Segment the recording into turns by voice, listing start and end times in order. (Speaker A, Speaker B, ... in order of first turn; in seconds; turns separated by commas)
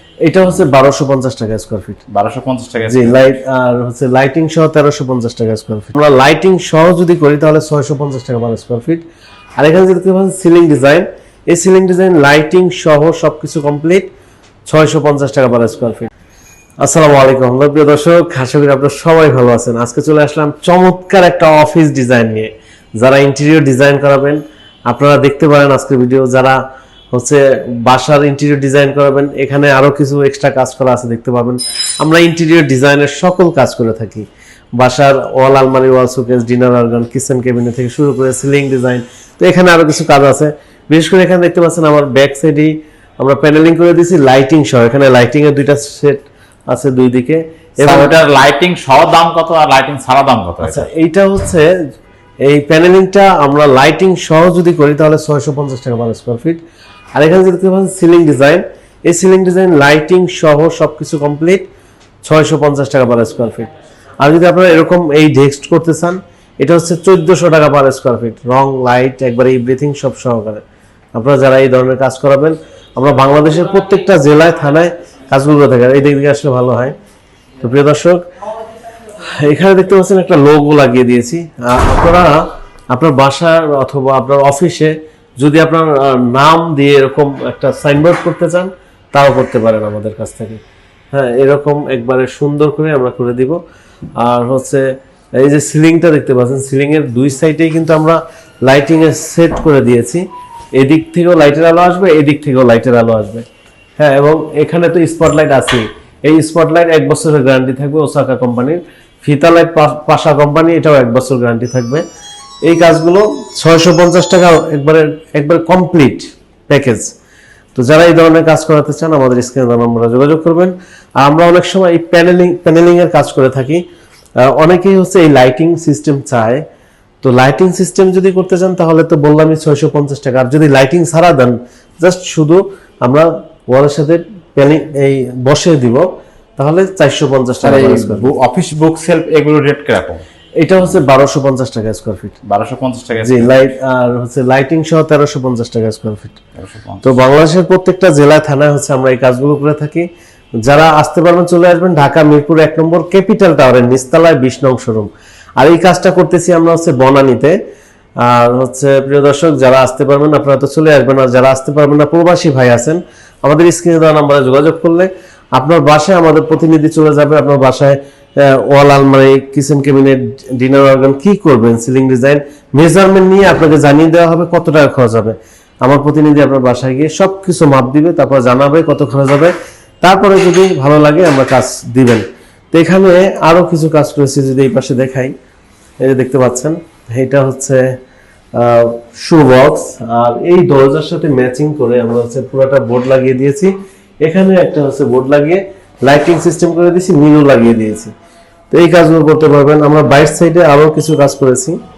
Speaker A: 0.2-2.0, Speaker B: 2.1-3.2, Speaker A: 2.9-9.0, Speaker A: 9.6-14.1, Speaker A: 14.7-16.1, Speaker A: 16.8-26.6, Speaker A: 27.1-48.3, Speaker B: 47.8-50.9, Speaker A: 50.6-51.7, Speaker A: 52.4-56.6, Speaker A: 57.1-61.7, Speaker A: 62.2-70.6, Speaker A: 71.1-77.0, Speaker A: 77.6-78.2, Speaker A: 79.2-93.6, Speaker A: 94.2-94.9, Speaker A: 95.4-100.2, Speaker A: 100.8-103.5, Speaker A: 104.0-112.0, Speaker A: 112.6-117.1, Speaker A: 117.7-123.8, Speaker A: 124.4-126.6, Speaker A: 127.2-136.0, Speaker A: 136.6-138.4, Speaker B: 137.6-140.2, Speaker A: 140.6-142.4, Speaker B: 142.4-143.5, Speaker A: 143.2-146.4, Speaker B: 146.6-147.2, Speaker A: 147.0-150.1, Speaker A: 150.6-157.6, Speaker A: 158.2-185.3, Speaker A: 186.0-188.0, Speaker A: 188.5-193.7, Speaker A: 194.2-198.1, Speaker A: 198.7-201.8